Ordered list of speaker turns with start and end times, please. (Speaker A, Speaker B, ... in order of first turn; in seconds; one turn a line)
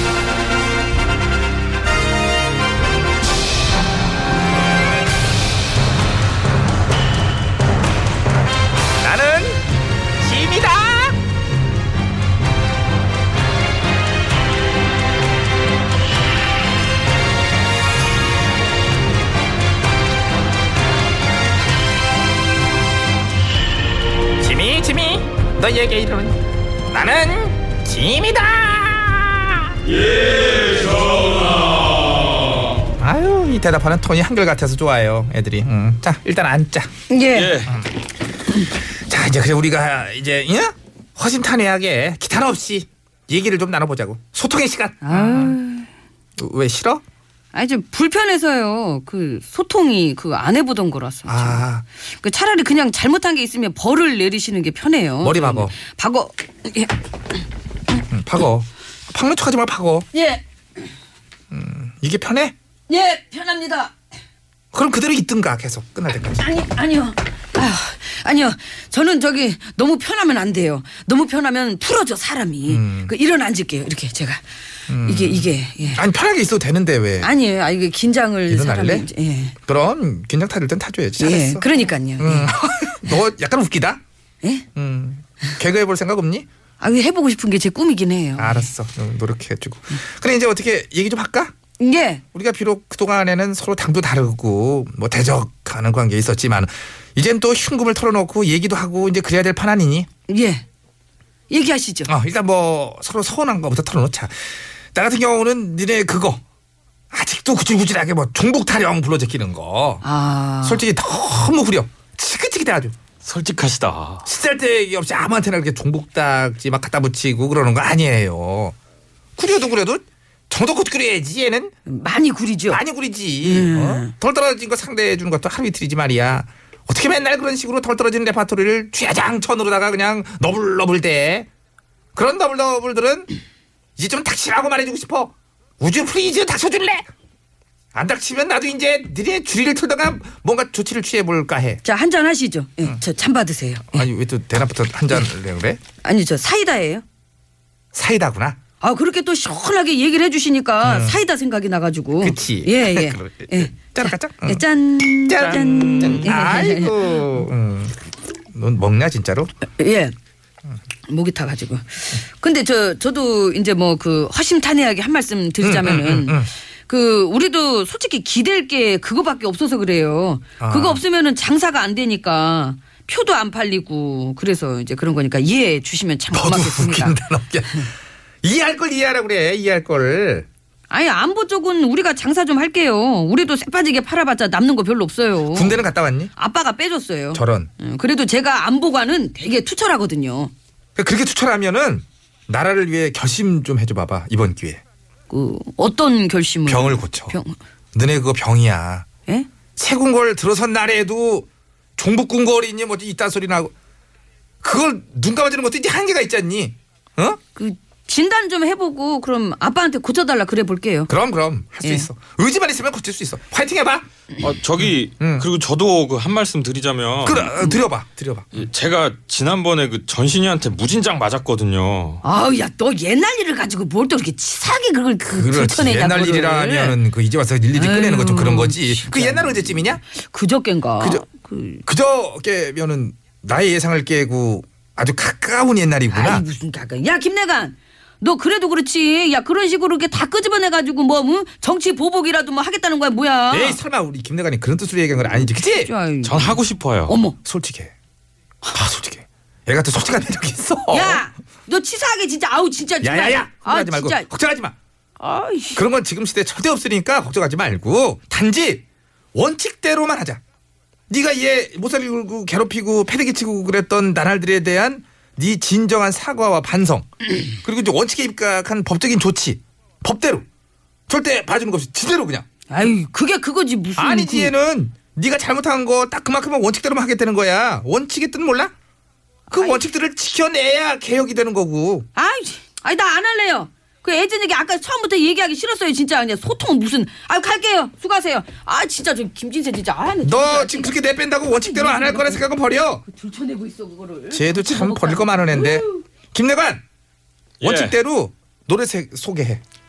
Speaker A: 9.0-9.6
Speaker A: 10.2-11.2
Speaker A: 24.4-26.4
Speaker A: 26.9-29.7
Speaker A: 33.0-36.9
Speaker B: 37.1-37.7
Speaker C: 37.3-37.7
Speaker A: 39.1-45.6
Speaker B: 45.0-45.9
Speaker A: 46.4-47.0
Speaker B: 47.5-56.9
Speaker A: 51.3-51.9
Speaker A: 55.2-55.8
Speaker A: 58.1-60.1
Speaker B: 60.1-60.4
Speaker A: 61.5-62.5
Speaker B: 62.9-63.9
Speaker A: 64.7-66.4
Speaker B: 66.3-74.4
Speaker A: 72.7-73.1
Speaker A: 74.9-77.3
Speaker B: 75.0-76.0
Speaker B: 77.2-79.6
Speaker A: 78.5-79.1
Speaker A: 79.7-81.7
Speaker B: 81.2-82.5
Speaker A: 82.2-84.0
Speaker A: 84.8-86.5
Speaker B: 86.8-88.7
Speaker A: 88.4-91.5
Speaker B: 91.8-92.2
Speaker A: 92.3-100.1
Speaker B: 100.3-100.6
Speaker B: 101.5-102.1
Speaker A: 102.1-106.4
Speaker A: 107.1-110.0
Speaker B: 110.0-110.8
Speaker A: 110.6-113.0
Speaker C: 113.2-114.2
Speaker A: 114.2-118.8
Speaker A: 119.4-121.7
Speaker B: 121.9-122.8
Speaker A: 122.7-131.5
Speaker B: 123.4-124.1
Speaker A: 132.1-133.3
Speaker A: 134.0-137.1
Speaker A: 137.9-141.8
Speaker B: 141.8-144.1
Speaker A: 143.9-145.8
Speaker B: 146.0-147.0
Speaker A: 147.9-148.6
Speaker B: 148.8-157.5
Speaker A: 150.8-151.2
Speaker A: 152.2-154.6
Speaker A: 155.3-158.0
Speaker A: 158.5-159.5
Speaker B: 159.8-160.1
Speaker B: 161.1-177.2
Speaker A: 165.6-166.5
Speaker A: 170.6-171.0
Speaker A: 176.3-177.9
Speaker A: 178.4-180.5
Speaker B: 180.9-185.8
Speaker A: 185.5-186.3
Speaker B: 186.4-190.5
Speaker A: 187.3-187.7
Speaker A: 191.0-194.8
Speaker B: 195.3-197.6
Speaker A: 196.7-197.3
Speaker A: 197.9-199.1
Speaker A: 199.8-203.7
Speaker A: 204.6-207.4
Speaker B: 207.6-211.1
Speaker A: 211.1-214.1
Speaker B: 211.8-212.1
Speaker C: 214.4-217.5
Speaker A: 214.8-215.5
Speaker A: 217.2-218.6
Speaker C: 218.5-222.2
Speaker B: 222.2-227.0
Speaker A: 225.2-230.0
Speaker B: 227.7-231.8
Speaker A: 231.0-231.2
Speaker A: 231.8-236.4
Speaker B: 236.1-243.8
Speaker A: 243.5-245.9
Speaker B: 245.5-247.4
Speaker C: 246.2-247.2
Speaker A: 247.4-247.9
Speaker A: 248.6-251.2
Speaker B: 250.9-254.2
Speaker A: 253.0-254.8
Speaker B: 255.2-255.8
Speaker A: 255.7-260.4
Speaker A: 261.1-270.4
Speaker A: 271.1-272.5
Speaker B: 272.7-274.5
Speaker A: 274.0-278.7
Speaker B: 279.5-279.8
Speaker A: 279.5-282.1
Speaker B: 282.1-292.4
Speaker A: 290.2-293.0
Speaker B: 293.0-296.0
Speaker A: 294.3-296.8
Speaker C: 297.6-298.0
Speaker A: 297.6-299.6